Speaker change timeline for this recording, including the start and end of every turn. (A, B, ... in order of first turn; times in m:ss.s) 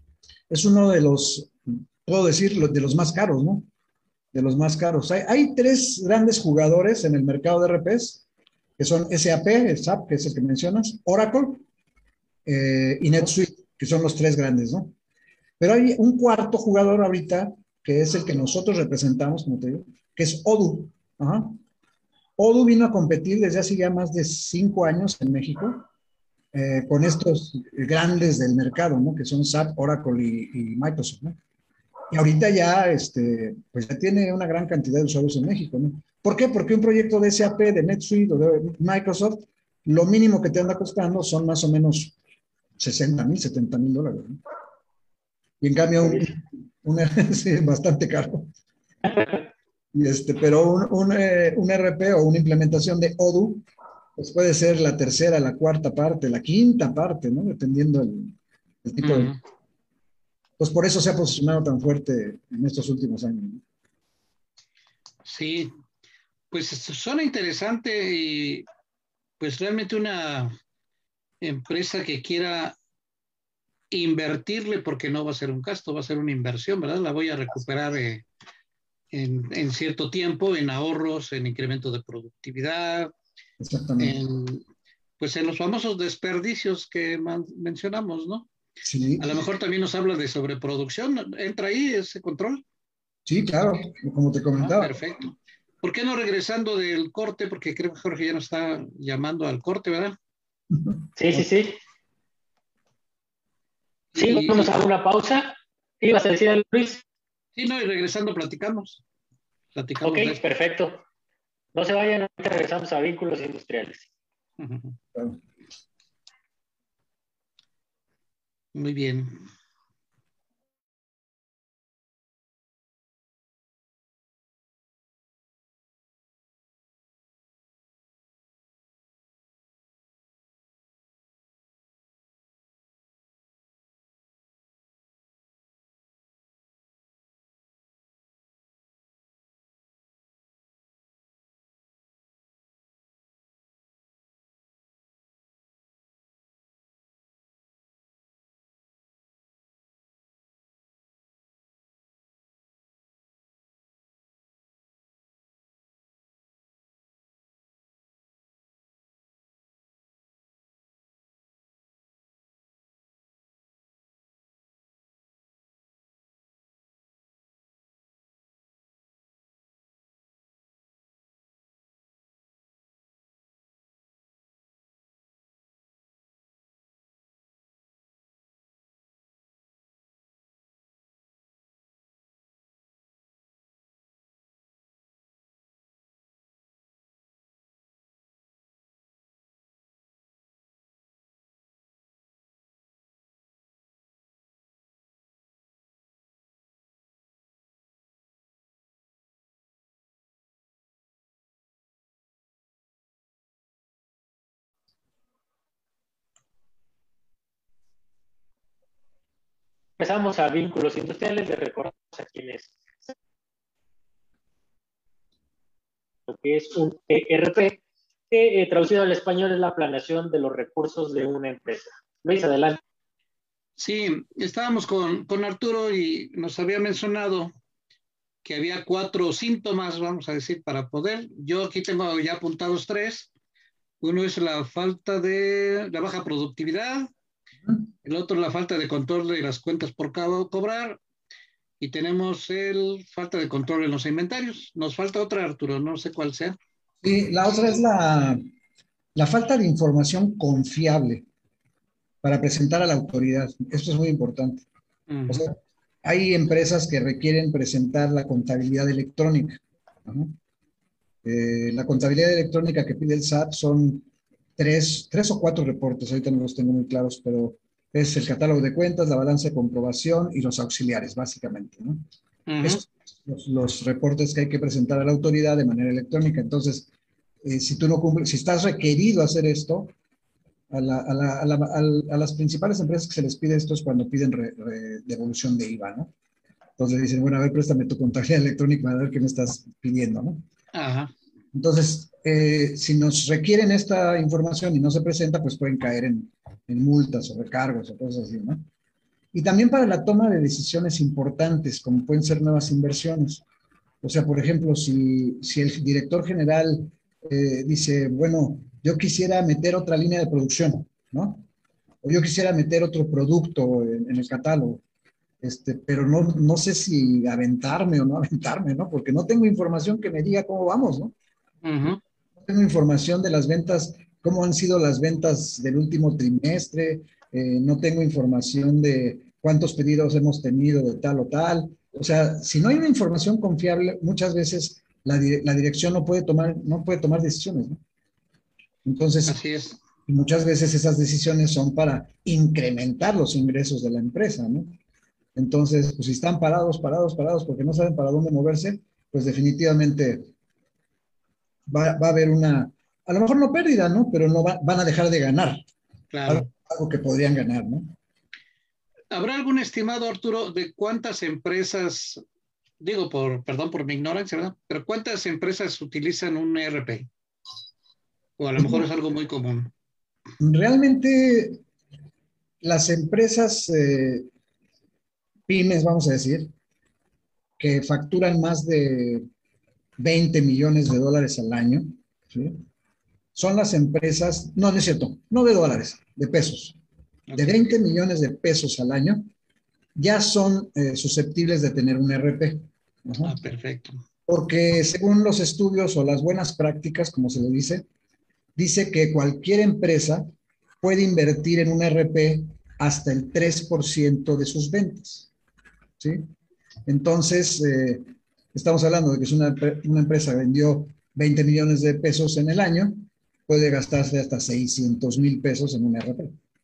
0:00.5-0:03.7 A
0:04.3-0:08.2 A
0:08.8-0:11.6 A
0:12.4-0:14.9 A
0:15.6-0:21.6 A
0:22.4-0:25.9 A
0:26.5-0:31.4 A
0:32.1-0:42.2 A
0:42.8-0:44.4 A
0:45.6-0:48.5 A
0:49.0-0:49.5 B
0:49.9-0:53.6 A
0:54.2-0:59.4 A
0:59.0-0:59.4 C
1:00.6-1:03.6 A
1:05.2-1:05.7 C
1:06.5-1:08.6 C
1:09.4-1:10.6 C
1:11.4-1:12.8 C
1:13.9-1:18.2 C
1:19.1-1:23.1 C
1:23.6-1:24.2 A
1:24.0-1:24.6 C
1:25.2-1:28.5 C
1:28.8-1:29.4 A
1:29.2-1:32.6 C
1:33.2-1:34.9 A
1:34.6-1:40.2 C
1:40.7-1:41.4 A
1:41.2-1:41.8 B
1:44.1-1:44.7 C
1:44.2-1:47.0 B
1:47.6-1:49.0 C
1:49.7-1:50.4 C
1:50.0-1:51.0 B
1:51.7-1:54.1 B
1:54.6-1:55.0 C
1:58.7-1:59.4 C
3:30.0-3:33.1 B
3:36.3-3:42.8 B
3:43.8-3:47.5 C
3:48.4-3:53.3 C
3:54.0-3:57.1 C
3:58.0-4:01.0 C
4:01.8-4:06.6 C
4:07.0-4:08.4 A
4:09.1-4:11.3 A
4:12.2-4:14.6 A
4:15.1-4:15.4 C
4:15.3-4:20.3 A
4:21.2-4:32.0 A
4:32.5-4:32.8 C
4:32.6-4:36.9 A
4:37.4-4:39.9 A
4:40.7-4:46.1 A
4:46.8-4:50.4 A
4:50.7-4:51.1 C
4:51.5-4:58.6 A
4:59.3-5:03.4 A
5:04.0-5:11.4 A
5:12.0-5:14.8 A
5:15.4-5:21.1 A
5:21.6-5:22.0 C
5:22.4-5:37.8 A
5:38.8-5:39.4 A
5:39.3-5:39.8 C
5:40.1-5:44.8 A
5:45.4-5:50.3 A
5:51.7-5:55.6 A
5:56.1-5:56.5 C
5:56.3-5:57.9 A
5:59.1-6:02.2 C
6:02.8-6:07.1 C
6:08.4-6:09.7 C
6:08.6-6:08.8 A
6:10.4-6:11.6 A
6:12.6-6:14.3 A
6:15.5-6:16.5 A
6:17.6-6:19.2 A
6:20.0-6:22.6 A
6:23.3-6:26.8 A
6:27.3-6:27.6 C
6:27.4-6:29.3 A
6:29.9-6:33.3 A
6:33.2-6:34.0 C
6:34.3-6:37.8 A
6:38.6-6:40.3 A
6:40.8-6:45.3 A
6:46.0-6:46.3 A
6:46.8-6:56.4 A